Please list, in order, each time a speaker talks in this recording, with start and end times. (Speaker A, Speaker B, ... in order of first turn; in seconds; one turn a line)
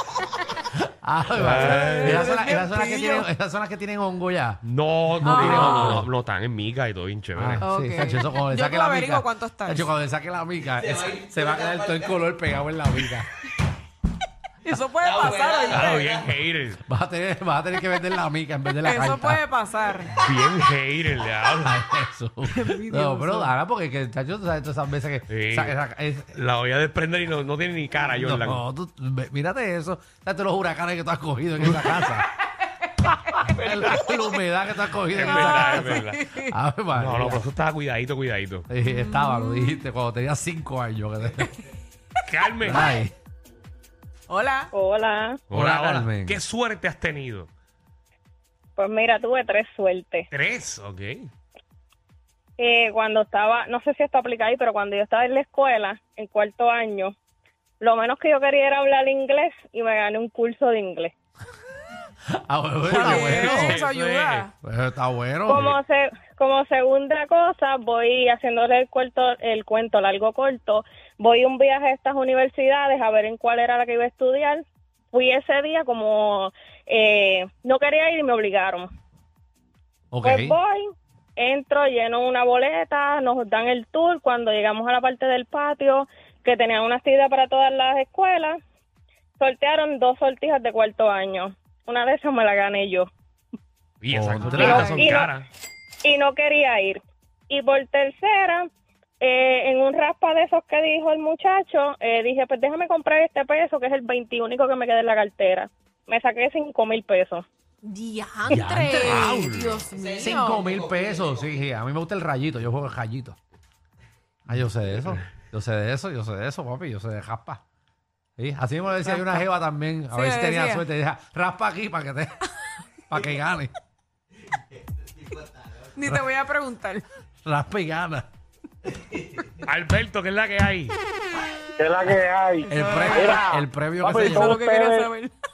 Speaker A: 0.7-4.6
Speaker B: 1.4-2.3
Speaker C: 1.6-3.3
Speaker B: 4.6-7.6
Speaker A: 5.2-6.1
Speaker C: 5.2-6.0
Speaker A: 7.3-13.3
Speaker C: 7.6-9.9
Speaker C: 14.6-16.2
Speaker B: 15.7-16.8
Speaker A: 16.9-19.4
Speaker C: 18.9-20.1
Speaker B: 20.2-21.8
Speaker A: 21.6-26.4
Speaker C: 22.5-23.5
Speaker B: 25.3-25.8
Speaker B: 26.3-28.6
Speaker A: 28.2-32.3
Speaker A: 33.4-37.5
Speaker B: 35.1-36.2
Speaker C: 35.2-36.5
Speaker B: 37.0-38.7
Speaker A: 38.7-41.7
Speaker C: 38.9-39.8
Speaker B: 42.2-42.9
Speaker A: 42.6-43.1
Speaker C: 44.3-44.7
Speaker D: 44.7-45.4
Speaker B: 45.5-47.5
Speaker A: 45.5-46.4
Speaker D: 48.8-50.3
Speaker B: 50.3-51.3
Speaker D: 52.6-57.1
Speaker D: 57.8-61.1
Speaker A: 62.3-63.8
Speaker B: 62.9-64.5
Speaker C: 62.9-64.5
Speaker A: 64.6-65.7
Speaker D: 65.5-78.9
Speaker A: 80.1-80.6
Speaker D: 80.2-80.8
Speaker D: 81.4-88.6
Speaker D: 89.4-93.1
Speaker B: 94.0-95.5
Speaker A: 94.1-95.0
Speaker C: 94.4-95.0
Speaker D: 94.5-95.3
Speaker D: 96.0-98.7
Speaker D: 99.2-107.5
Speaker C: 107.8-110.8
Speaker A: 108.5-109.4
Speaker B: 109.0-109.8
Speaker A: 110.2-113.4
Speaker A: 114.5-117.6
Speaker A: 118.4-122.4
Speaker C: 120.1-120.9
Speaker A: 123.1-123.7
Speaker C: 126.0-127.0
Speaker A: 127.5-128.3
Speaker B: 129.6-131.0
Speaker E: 131.8-135.1
Speaker A: 132.7-134.6
Speaker C: 132.7-133.5
Speaker C: 134.2-135.3